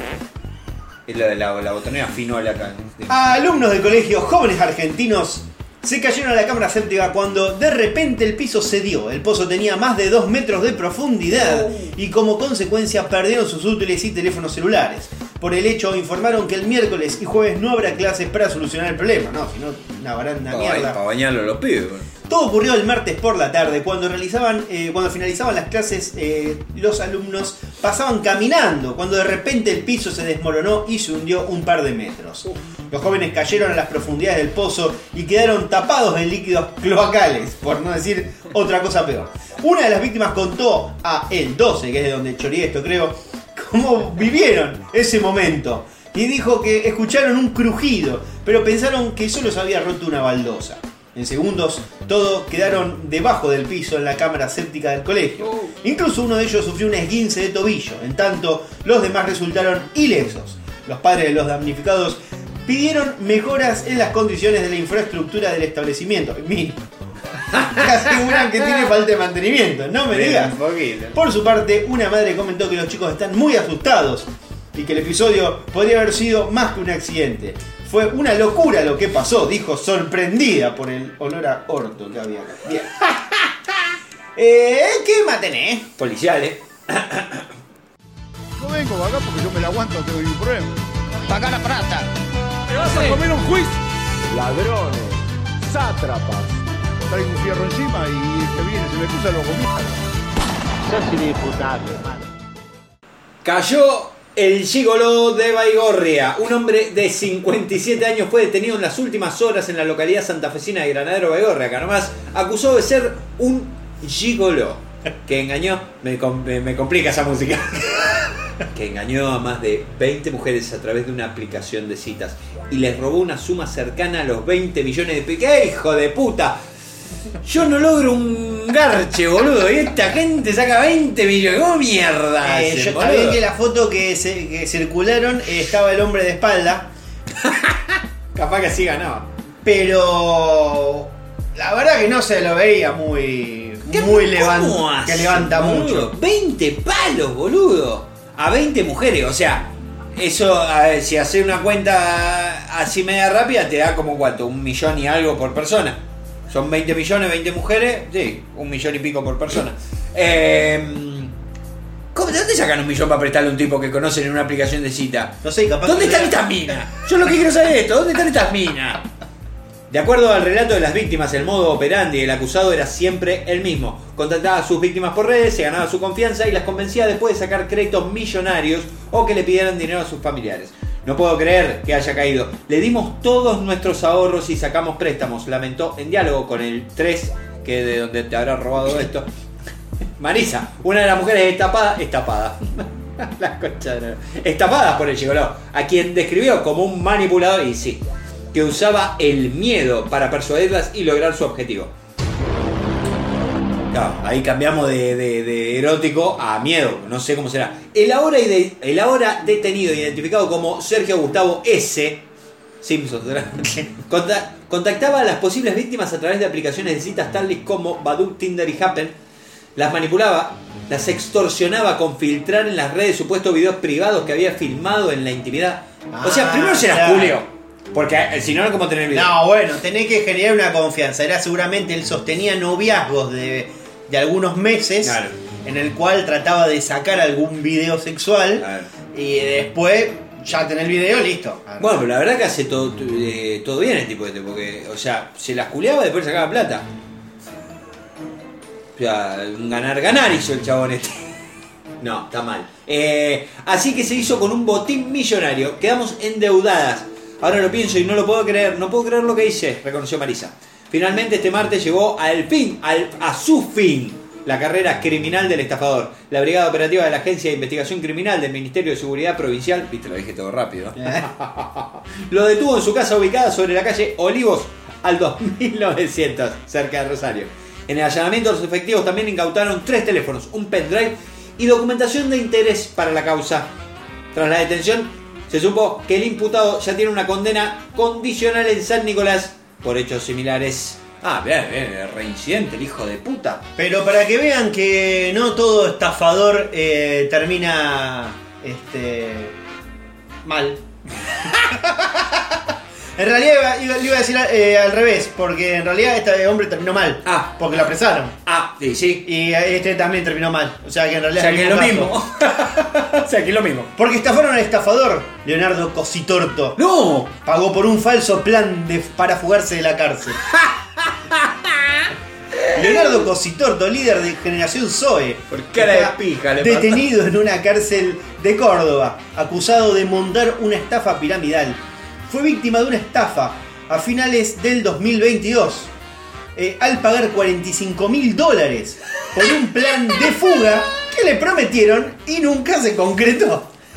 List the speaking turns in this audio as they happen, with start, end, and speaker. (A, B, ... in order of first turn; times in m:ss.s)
0:01.1-0:03.1 A
0:03.1-0:21.0 B
0:11.3-0:11.9 A
0:20.5-0:22.1 A
0:22.3-1:06.8 B
1:07.5-1:10.6 B
1:10.1-1:11.2 A
1:11.1-1:23.0 B
1:24.4-1:25.9 B
1:26.0-1:27.5 A
1:28.6-1:32.1 C
1:32.7-1:33.2 A
1:32.7-1:40.0 C
1:40.8-1:42.2 C
1:43.4-2:06.6 A
2:07.4-2:13.4 A
2:12.4-2:16.9 B
2:17.4-2:19.3 A
2:19.6-2:26.1 B
2:23.9-2:41.4 A
2:42.1-2:49.1 A
2:45.4-2:46.5 B
2:49.9-3:09.3 A
3:10.2-3:21.9 A
3:23.9-3:32.2 A
3:32.8-3:39.2 A
3:39.8-3:49.4 A
3:46.1-3:47.4 B
3:49.1-4:02.0 B
3:55.0-3:55.4 A
3:58.6-3:58.9 A
4:01.8-4:06.9 A
4:09.0-4:11.4 A
4:12.0-4:43.7 A
4:31.0-4:31.3 B
4:44.3-4:53.6 A
4:53.8-4:59.6 B
5:00.4-5:00.8 B
5:01.7-5:02.0 B
5:03.2-5:08.4 B
5:07.2-5:07.5 A
5:08.5-5:09.2 A
5:09.2-5:12.2 B
5:11.4-5:13.9 A
5:14.0-5:16.8 B
5:16.8-5:17.3 A
5:17.4-5:20.4 B
5:20.5-5:23.2 A
5:22.7-5:35.9 B
5:25.5-5:27.0 A
5:36.6-5:43.7 B